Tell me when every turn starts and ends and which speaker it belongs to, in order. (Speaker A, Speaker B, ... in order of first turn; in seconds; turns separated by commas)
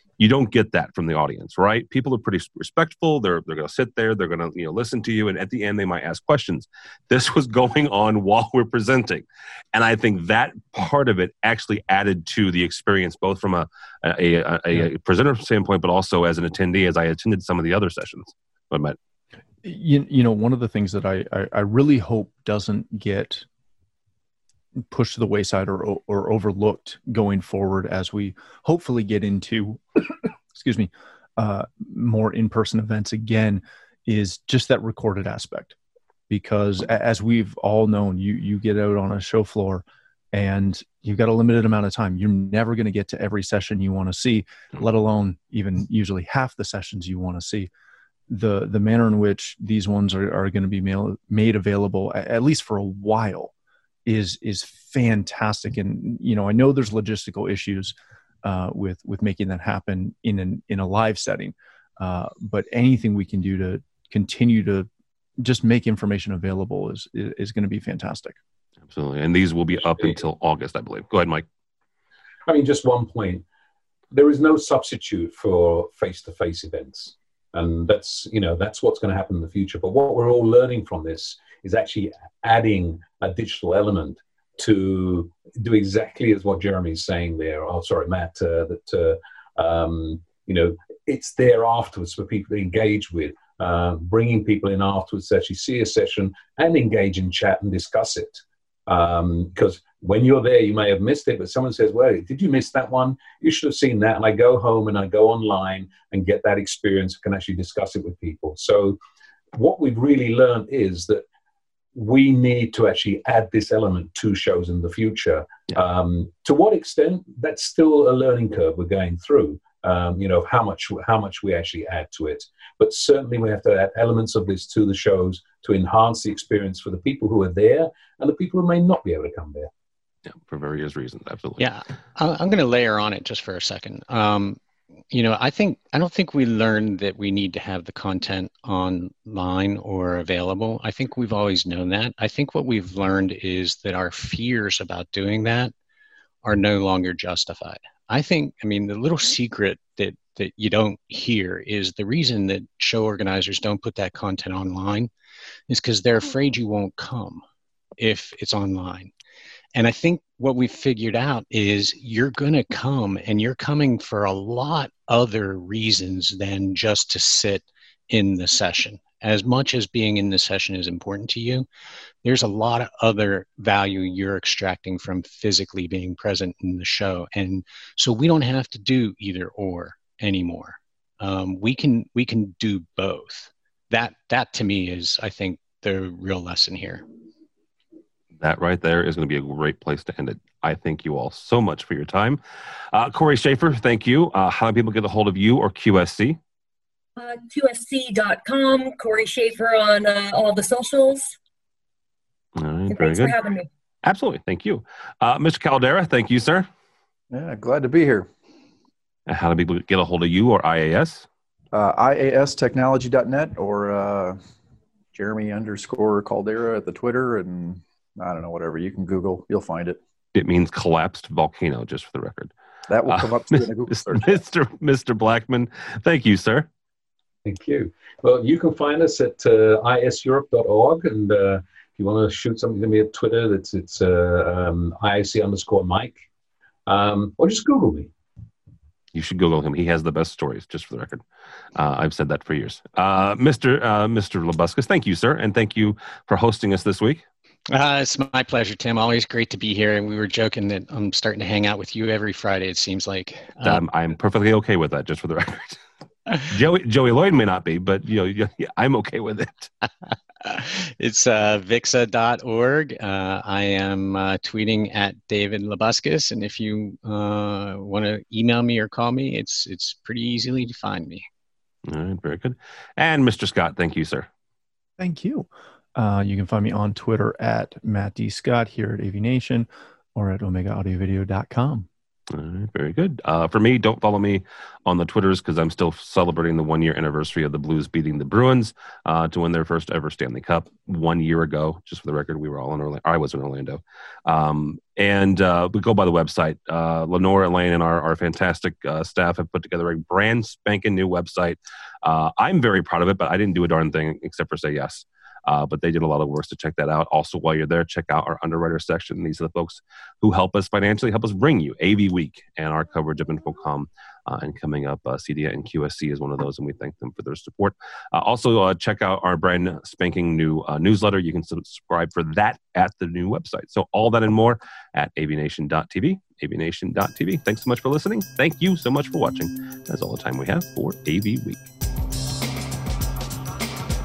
Speaker A: 0.2-19.0, Speaker B: 19.6-23.4, Speaker B: 24.9-35.8, Speaker B: 36.3-47.7, Speaker B: 48.3-53.5, Speaker B: 54.0-64.9, Speaker B: 65.4-68.4, Speaker A: 68.9-71.5, Speaker C: 72.5-73.4, Speaker C: 74.1-109.0, Speaker C: 109.5-111.2, Speaker C: 111.9-129.7, Speaker A: 130.4-131.7, Speaker D: 131.6-134.6, Speaker D: 135.1-145.7, Speaker D: 146.4-155.1, Speaker D: 155.7-157.4, Speaker D: 158.0-159.1, Speaker D: 159.7-171.7, Speaker D: 172.2-187.0, Speaker A: 188.4-192.4, Speaker A: 192.9-196.4, Speaker E: 197.2-201.3, Speaker A: 202.6-203.4, Speaker E: 202.9-203.7, Speaker A: 204.0-206.7, Speaker F: 207.3-208.3, Speaker A: 209.3-211.2, Speaker F: 211.7-214.4, Speaker F: 215.1-220.0, Speaker A: 220.3-222.5, Speaker F: 222.9-224.4, Speaker A: 223.9-226.7, Speaker C: 227.4-236.2, Speaker C: 236.9-238.1, Speaker A: 239.1-241.2, Speaker A: 241.7-247.2, Speaker D: 247.7-253.8, Speaker A: 253.6-255.8, Speaker A: 256.5-259.7, Speaker D: 260.4-271.3, Speaker A: 271.9-274.3, Speaker B: 275.0-281.9, Speaker A: 282.3-331.6